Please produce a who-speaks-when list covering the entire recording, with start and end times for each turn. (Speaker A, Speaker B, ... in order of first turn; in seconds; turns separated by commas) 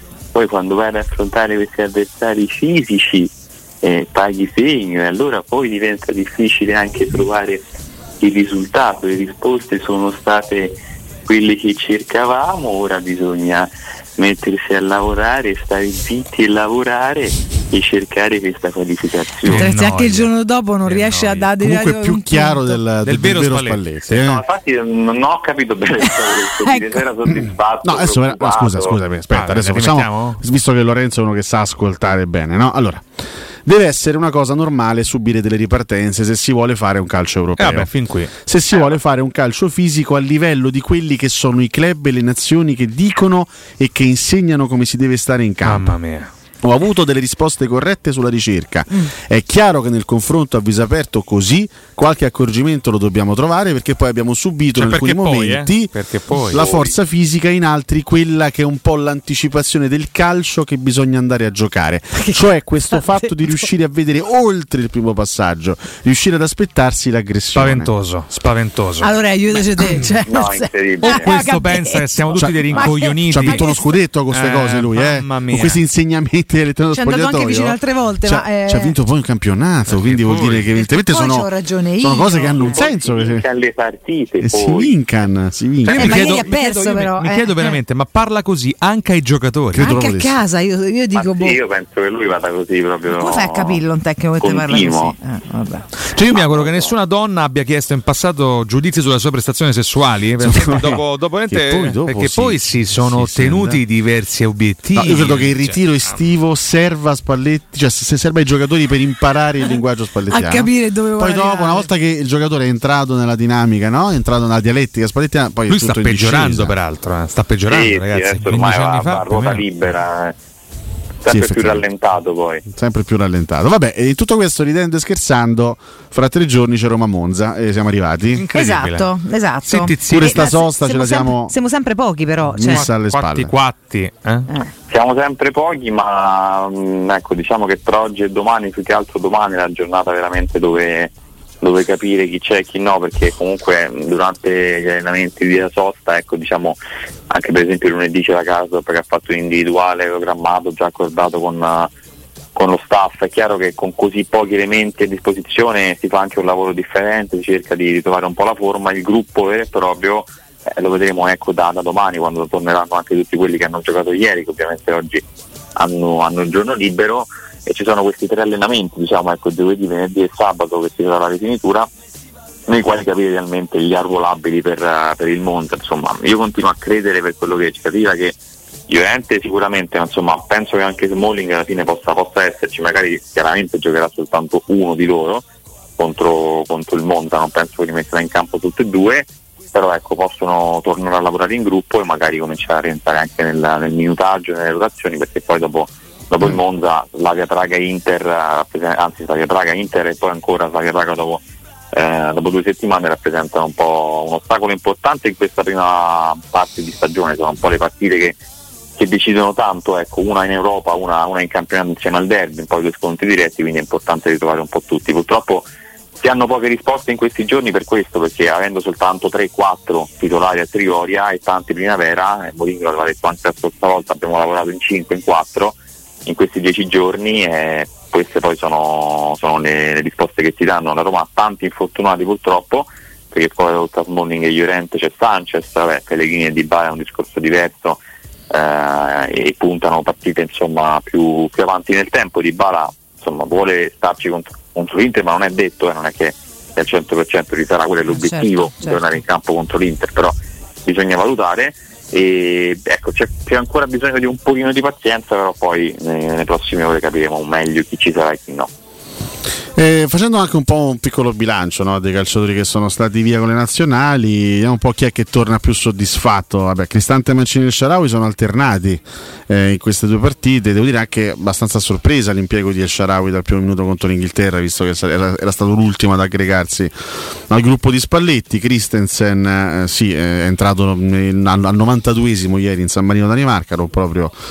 Speaker A: 0.3-7.7, Speaker A: 8.2-19.7, Speaker B: 19.4-21.6, Speaker C: 19.5-22.8, Speaker D: 21.6-24.4, Speaker B: 23.0-24.2, Speaker A: 24.1-29.0, Speaker C: 26.6-27.0, Speaker D: 27.8-33.1, Speaker B: 29.3-30.4, Speaker D: 33.6-45.9, Speaker B: 37.6-38.3, Speaker B: 45.6-46.3, Speaker D: 46.6-67.9, Speaker B: 54.7-56.6, Speaker A: 56.5-57.0, Speaker C: 62.2-63.6, Speaker B: 67.5-69.1, Speaker C: 69.0-74.0, Speaker A: 70.3-71.4, Speaker B: 71.1-73.7, Speaker D: 72.3-83.5, Speaker B: 74.3-75.8, Speaker C: 76.9-79.0, Speaker B: 79.9-80.7, Speaker C: 80.8-82.7, Speaker A: 82.5-85.0, Speaker D: 84.4-86.4, Speaker B: 85.8-89.9, Speaker C: 85.9-87.8, Speaker D: 89.7-90.4, Speaker C: 89.8-91.6, Speaker A: 91.1-93.8, Speaker C: 93.1-95.9, Speaker A: 94.4-95.2, Speaker B: 96.1-106.1, Speaker A: 96.3-96.9, Speaker D: 100.4-103.8, Speaker D: 105.0-116.7, Speaker C: 110.3-111.9, Speaker B: 115.7-119.8, Speaker A: 117.7-120.4, Speaker A: 121.2-122.6, Speaker D: 121.3-121.8, Speaker D: 122.7-128.4, Speaker B: 128.3-129.1, Speaker C: 128.5-132.8, Speaker B: 129.7-130.3, Speaker D: 130.1-131.6, Speaker D: 132.5-133.5, Speaker B: 132.7-134.5, Speaker A: 134.9-146.8, Speaker A: 147.3-151.9, Speaker A: 152.6-165.2, Speaker A: 165.8-171.9, Speaker A: 172.7-178.4, Speaker A: 178.9-185.4, Speaker A: 186.0-208.4, Speaker A: 209.0-238.0, Speaker A: 238.5-250.3, Speaker C: 248.1-249.0, Speaker A: 250.8-258.7, Speaker D: 259.8-276.9, Speaker D: 277.5-284.4